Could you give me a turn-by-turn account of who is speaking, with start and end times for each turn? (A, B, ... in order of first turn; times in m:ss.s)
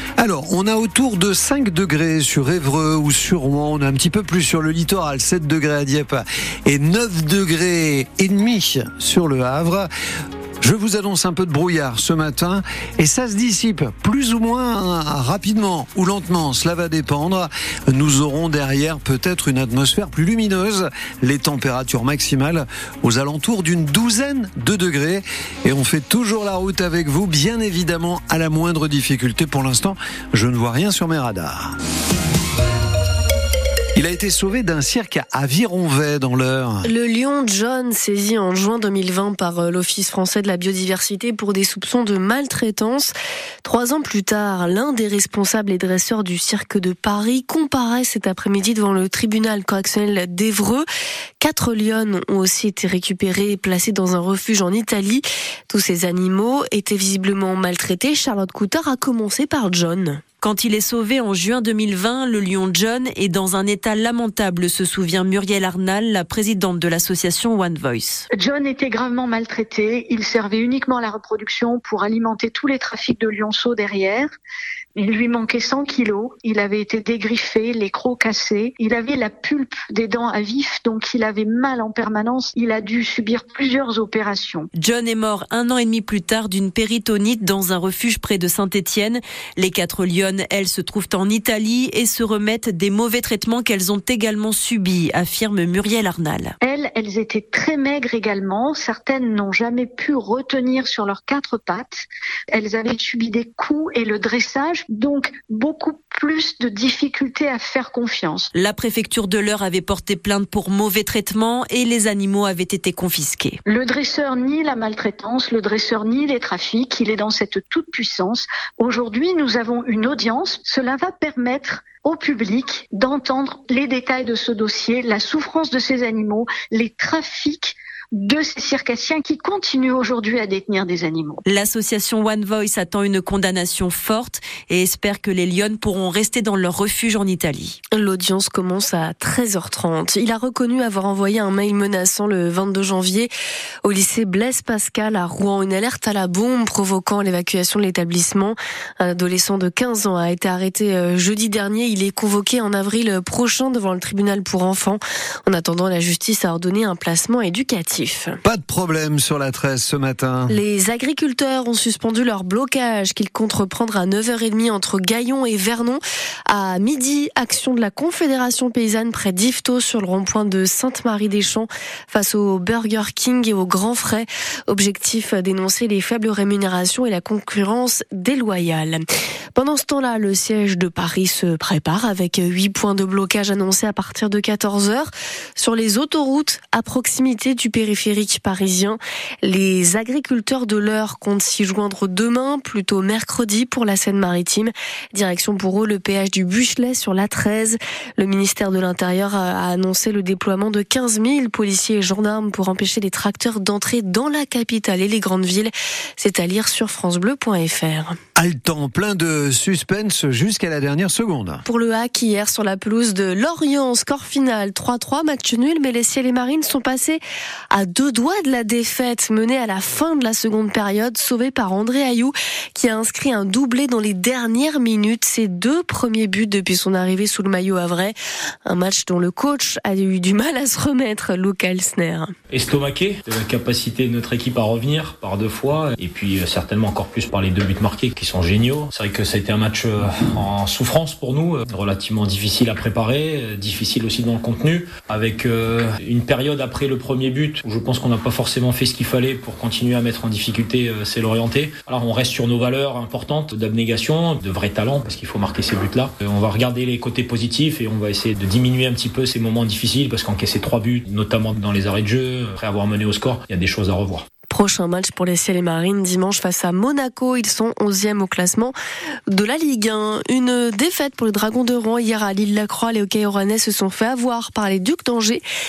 0:00.2-0:09.9 A
0:10.6-0:31.7 A
0:34.0-0:36.9 A
0:36.8-0:43.1 B
0:43.6-0:50.8 B
0:51.4-1:00.2 B
1:00.4-1:08.3 C
1:08.4-1:14.3 D
1:15.0-1:24.7 D
1:24.7-1:36.6 C
1:36.6-1:48.5 D
1:48.5-1:53.6 C
1:53.7-2:11.4 D
2:11.5-2:17.8 C
2:17.9-2:23.3 B
2:23.8-2:38.4 B
2:38.4-2:40.6 A
2:40.5-2:59.0 B
2:59.6-3:28.2 B
3:28.4-3:31.6 A
3:31.7-3:52.3 B
3:52.5-4:24.3 E
4:24.5-4:28.8 B
4:29.3-4:35.4 B